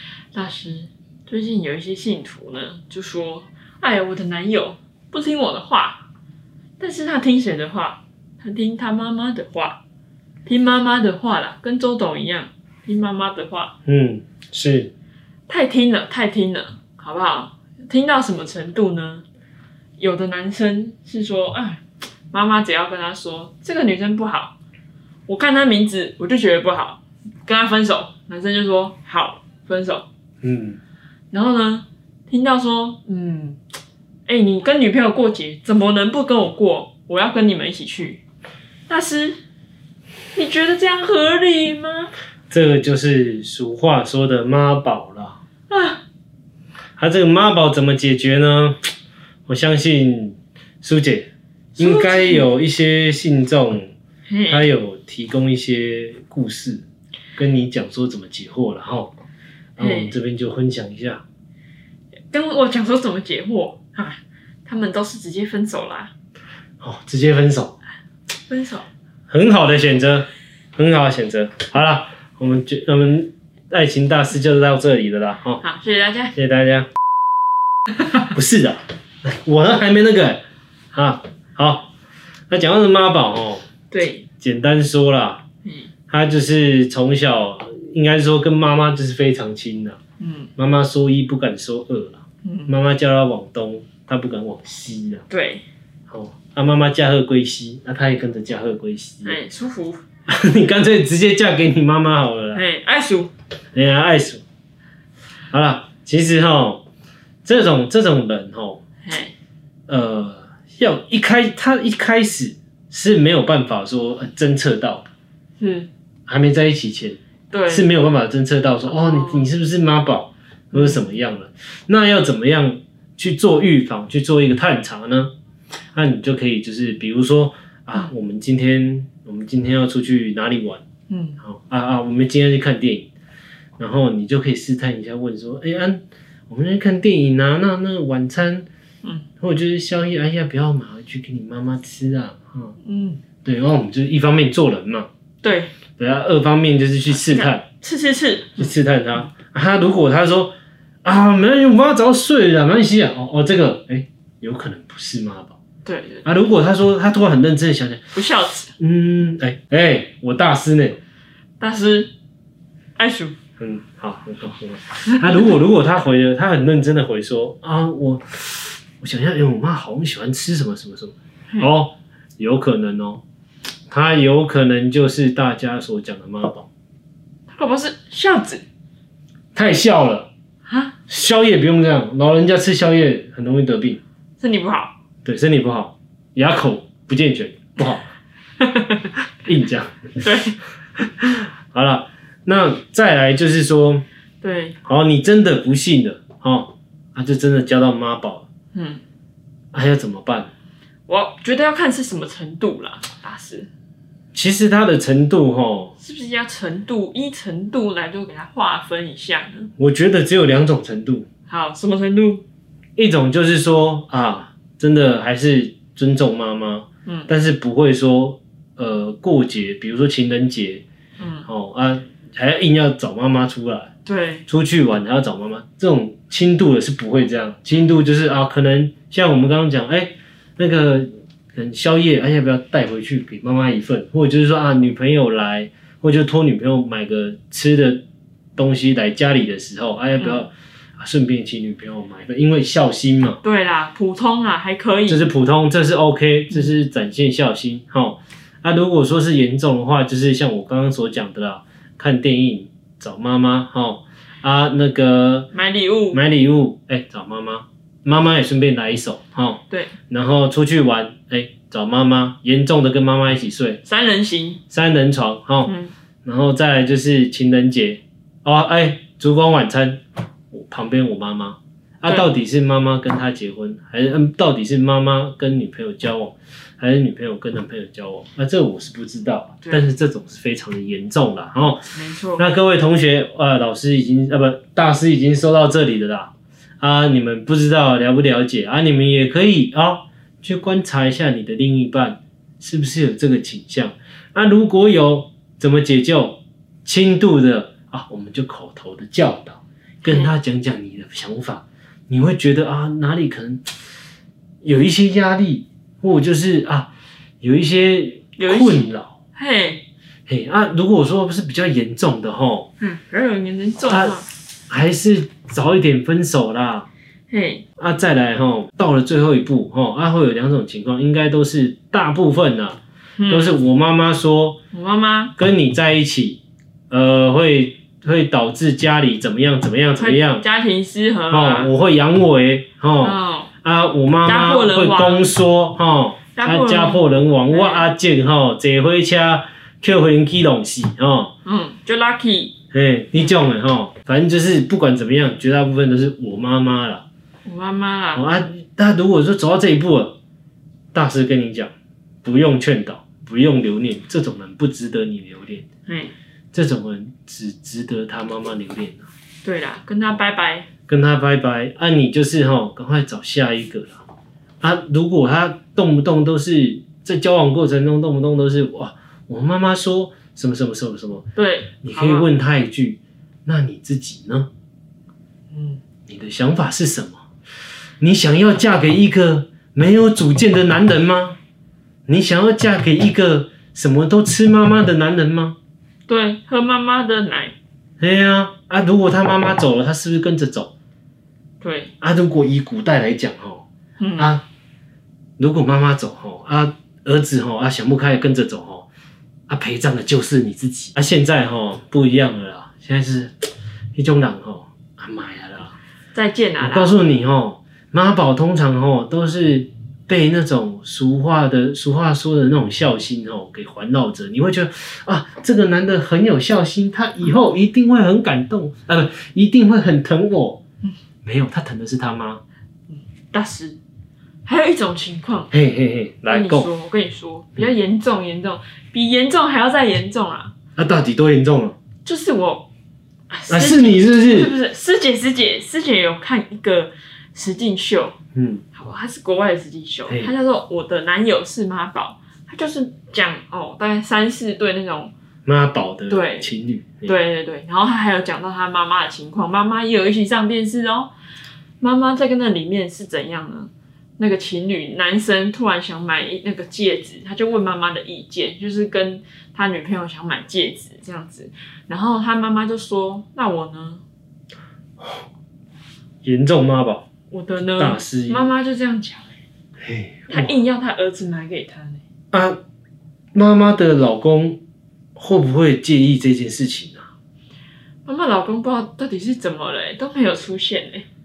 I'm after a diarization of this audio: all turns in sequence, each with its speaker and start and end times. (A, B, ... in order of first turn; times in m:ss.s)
0:00.3-0:06.0 A
0:06.8-0:09.8 A
0:10.5-0:13.7 A
0:13.8-0:14.9 B
0:15.5-0:19.2 A
0:20.0-0:21.8 A
0:22.3-0:24.5 A
0:25.3-0:30.0 A
0:30.4-0:30.8 B
0:31.3-0:33.6 A
0:34.3-0:38.2 A
0:38.9-0:39.4 A
0:40.3-0:42.1 A
0:42.5-0:45.4 B
0:45.7-0:46.0 A
0:47.0-0:48.8 B
0:49.5-0:53.9 B
0:51.8-0:52.5 A
0:54.3-0:54.7 A
0:54.5-0:56.8 B
0:57.4-0:59.1 B
0:59.8-1:01.2 B
0:59.8-1:00.1 A
1:02.3-1:06.1 A
1:06.8-1:07.8 B
1:08.5-1:08.9 A
1:09.3-1:15.6 B
1:15.6-1:16.3 A
1:16.3-1:16.9 B
1:18.3-1:20.4 B
1:20.9-1:21.9 B
1:22.5-1:23.7 B
1:23.9-1:24.2 A
1:24.4-1:25.4 B
1:25.6-1:25.9 A
1:26.1-1:30.0 B
1:30.2-1:30.5 A
1:30.6-1:35.2 B
1:32.4-1:32.7 A
1:35.3-1:35.6 A
1:36.1-1:39.4 B
1:39.2-1:40.0 A
1:40.3-1:42.6 B
1:42.5-1:43.3 A
1:43.7-1:44.4 B
1:45.5-1:46.8 B
1:47.4-1:48.8 B
1:49.0-1:49.3 A
1:49.9-1:55.0 B
1:55.6-1:55.9 A
1:56.3-1:57.2 B
1:57.5-1:57.9 A
1:57.7-2:05.3 B
1:58.9-1:59.5 A
2:00.7-2:01.0 A
2:05.9-2:10.8 B
2:11.1-2:11.4 A
2:11.4-2:13.1 B
2:13.8-2:18.7 B
2:19.0-2:19.3 A
2:19.4-2:22.8 B
2:22.8-2:23.2 A
2:23.4-2:25.1 B
2:25.4-2:25.7 A
2:26.0-2:27.6 B
2:27.1-2:28.7 A
2:28.6-2:30.5 B
2:31.0-2:35.6 B
2:35.8-2:36.3 A
2:36.2-2:38.0 B
2:38.1-2:38.7 A
2:38.8-2:41.0 B
2:41.6-2:42.1 A
2:43.0-2:43.3 A
2:43.6-2:53.2 B
2:45.1-2:45.5 A
2:53.9-2:56.7 B
2:57.5-2:58.6 A
2:59.6-3:00.3 B
3:00.7-3:00.9 A
3:01.1-3:04.0 B
3:04.4-3:04.9 A
3:05.2-3:08.1 B
3:09.4-3:10.2 B
3:10.2-3:10.6 A
3:11.2-3:14.0 B
3:14.4-3:14.8 A
3:14.8-3:18.5 B
3:18.7-3:19.0 A
3:19.7-3:20.5 B
3:21.1-3:23.7 A
3:24.3-3:26.0 B
3:26.0-3:29.7 A
3:29.8-3:31.3 B
3:31.5-3:32.4 A
3:33.0-3:40.8 B
3:37.1-3:37.3 A
3:41.2-3:41.5 A
3:41.5-3:43.9 B
3:44.0-3:44.5 A
3:44.5-3:58.0 B
3:58.6-4:03.4 B
4:00.2-4:00.5 A
4:03.4-4:05.2 A
4:05.1-4:15.5 B
4:15.5-4:16.2 A
4:16.1-4:23.8 B
4:23.8-4:24.6 A
4:24.7-4:25.7 B
4:25.6-4:25.9 A
4:26.2-5:03.6 B
4:41.9-4:42.4 A
5:00.0-5:00.3 A
5:04.6-5:06.9 B
5:07.4-5:09.1 B
5:08.4-5:09.8 A
5:10.3-5:12.7 B
5:12.8-5:14.3 A
5:13.9-5:16.9 B
5:17.3-5:17.6 A
5:17.8-5:24.6 B
5:23.2-5:23.5 A
5:24.7-5:25.3 A
5:25.4-5:30.4 B
5:30.0-5:31.7 A
5:31.3-5:41.3 B
5:33.0-5:33.5 A
5:34.2-5:35.3 A
5:36.3-5:37.9 A
5:41.4-5:42.6 A
5:42.7-5:47.0 B
5:47.4-5:48.4 A
5:48.1-5:50.2 B
5:50.9-5:51.7 B
5:52.2-5:55.6 B
5:55.9-5:56.1 A
5:56.5-5:59.0 B
5:59.4-6:00.7 A
6:00.9-6:04.0 B
6:04.6-6:11.2 B
6:11.3-6:12.3 A
6:11.8-6:14.5 B
6:15.5-6:15.8 A
6:16.1-6:17.2 B
6:18.0-6:21.4 B
6:22.1-6:25.6 B
6:26.1-6:27.5 A
6:28.0-6:30.7 B
6:31.6-6:31.9 A
6:32.0-6:33.6 B
6:34.0-6:34.3 A
6:34.2-6:34.4 B
6:35.4-6:38.9 B
6:39.5-6:45.8 B
6:46.1-6:47.0 A
6:46.6-7:00.6 B
7:01.2-7:02.4 B
7:02.9-7:03.8 A
7:04.4-7:05.5 A
7:05.5-7:06.7 B
7:06.3-7:10.5 A
7:10.8-7:11.8 B
7:12.0-7:12.7 A
7:13.3-7:18.2 A
7:13.5-7:14.5 B
7:18.3-7:18.6 B
7:18.7-7:25.1 A
7:25.4-7:27.1 B
7:26.1-7:26.5 A
7:27.0-7:31.1 A
7:31.8-7:44.0 A
7:46.2-7:47.0 B
7:47.3-7:49.4 A
7:47.8-7:48.5 B
7:49.8-7:50.6 B
7:50.3-7:52.0 A
7:52.3-7:52.6 B
7:53.3-7:54.6 B
7:55.2-7:57.1 B
7:58.1-8:01.1 A